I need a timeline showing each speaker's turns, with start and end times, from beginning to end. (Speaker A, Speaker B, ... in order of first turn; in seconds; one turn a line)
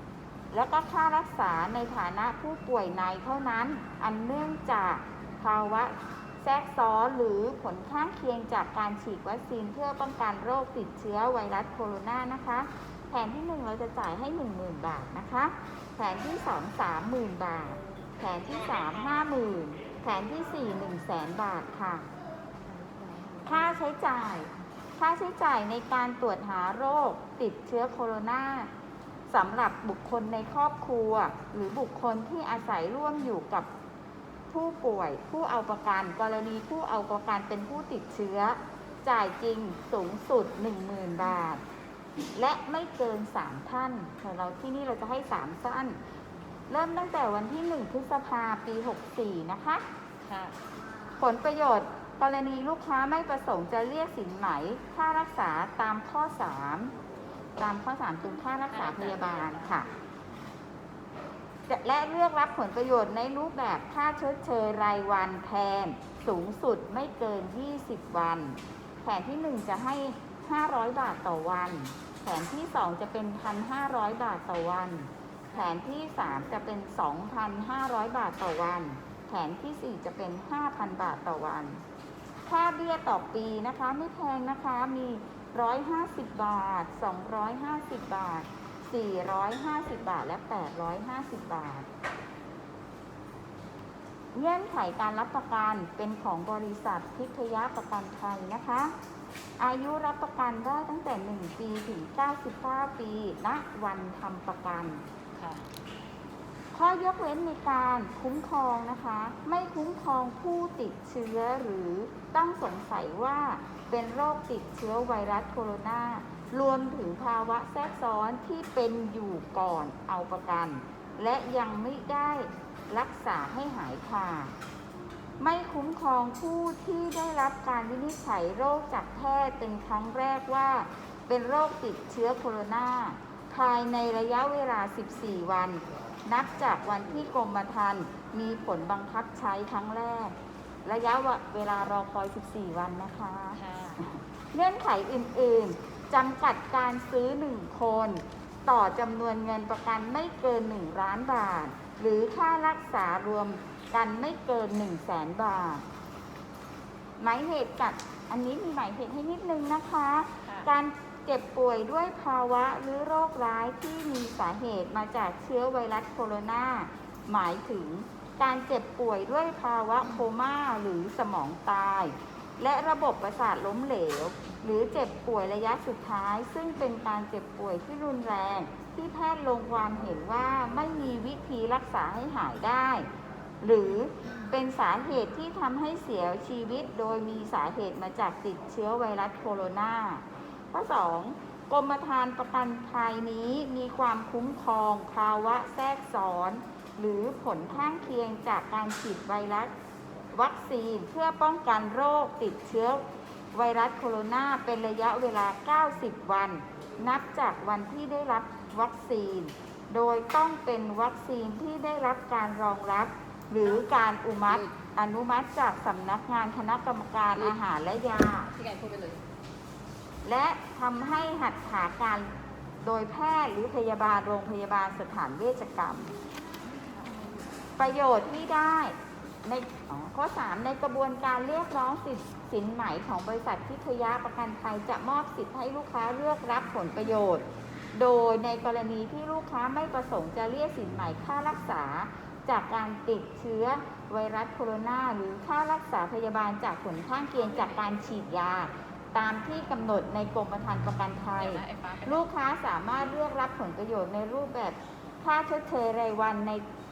Speaker A: 0.5-22.1
Speaker B: 22.6-23.8
Speaker A: 23.4-28.7
Speaker A: 29.3-33.7
Speaker A: 34.5-41.6
Speaker A: 42.3-46.0
Speaker A: 46.7-49.8
Speaker C: 50.2-50.6
Speaker A: 51.2-56.9
Speaker A: 57.6-59.9
Speaker C: 58.7-59.8
Speaker A: 61.7-81.8
Speaker C: 75.4-75.8
Speaker A: 82.5-91.9
Speaker A: 94.3-98.9
Speaker A: 99.6-105.0
Speaker C: 105.3-105.6
Speaker A: 106.7-124.5
Speaker A: 125.4-140.3
Speaker A: 140.8-155.8
Speaker C: 143.5-144.0
Speaker A: 157.2-183.1
Speaker C: 160.4-160.7
Speaker A: 183.6-199.7
Speaker A: 200.3-203.0
Speaker A: 203.5-218.5
Speaker B: 214.5-214.8
Speaker B: 217.3-217.7
Speaker B: 218.4-219.2
Speaker A: 220.2-222.3
Speaker A: 222.8-226.1
Speaker C: 226.8-227.4
Speaker A: 227.8-256.6
Speaker B: 251.3-252.3